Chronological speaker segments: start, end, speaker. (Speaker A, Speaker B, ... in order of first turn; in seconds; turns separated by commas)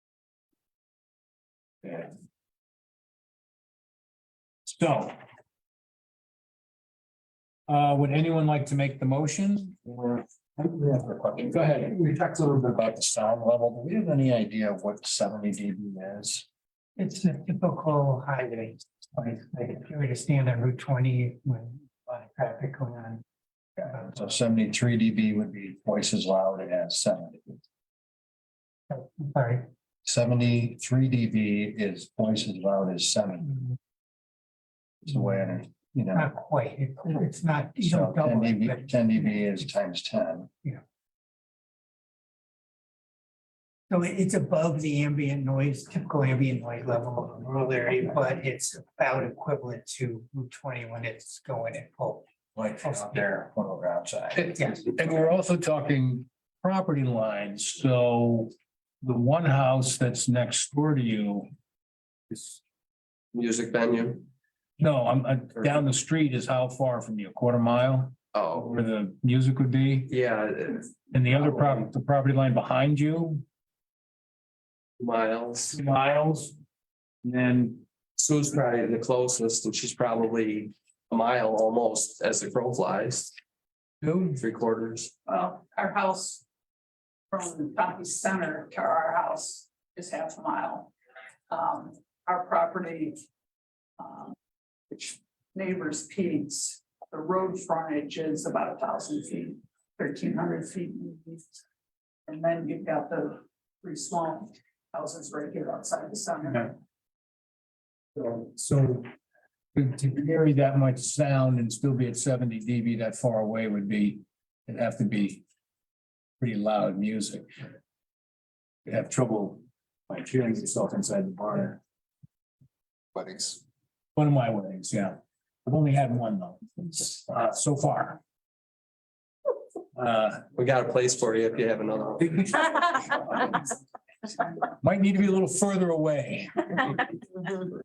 Speaker A: 1.8-2.1, Speaker A: 4.7-5.2, Speaker A: 7.7-9.8, Speaker B: 9.9-16.4, Speaker A: 11.5-11.9, Speaker C: 17.0-23.2, Speaker B: 23.8-27.6, Speaker C: 28.9-29.7, Speaker B: 30.0-33.6, Speaker B: 35.0-36.3, Speaker C: 36.1-39.6, Speaker B: 37.8-40.5, Speaker C: 43.9-52.2, Speaker B: 52.5-54.5, Speaker C: 52.8-53.1, Speaker A: 54.4-61.5, Speaker A: 62.3-62.6, Speaker D: 63.3-64.2, Speaker A: 64.8-70.1, Speaker D: 68.3-68.7, Speaker D: 70.1-70.9, Speaker A: 71.1-73.4, Speaker D: 75.0-75.7, Speaker A: 75.7-76.5, Speaker A: 77.2-77.8, Speaker D: 78.2-83.3, Speaker A: 84.0-84.4, Speaker D: 84.3-85.1, Speaker E: 85.3-86.4, Speaker E: 87.3-90.9, Speaker E: 91.5-93.2, Speaker E: 94.0-94.3, Speaker E: 94.9-101.6, Speaker E: 102.3-106.7, Speaker A: 108.1-109.1, Speaker A: 109.7-115.4, Speaker A: 116.4-117.5, Speaker A: 118.8-121.8, Speaker A: 124.2-128.2, Speaker A: 129.9-130.4, Speaker D: 130.5-132.3, Speaker A: 132.2-133.6, Speaker A: 134.8-137.0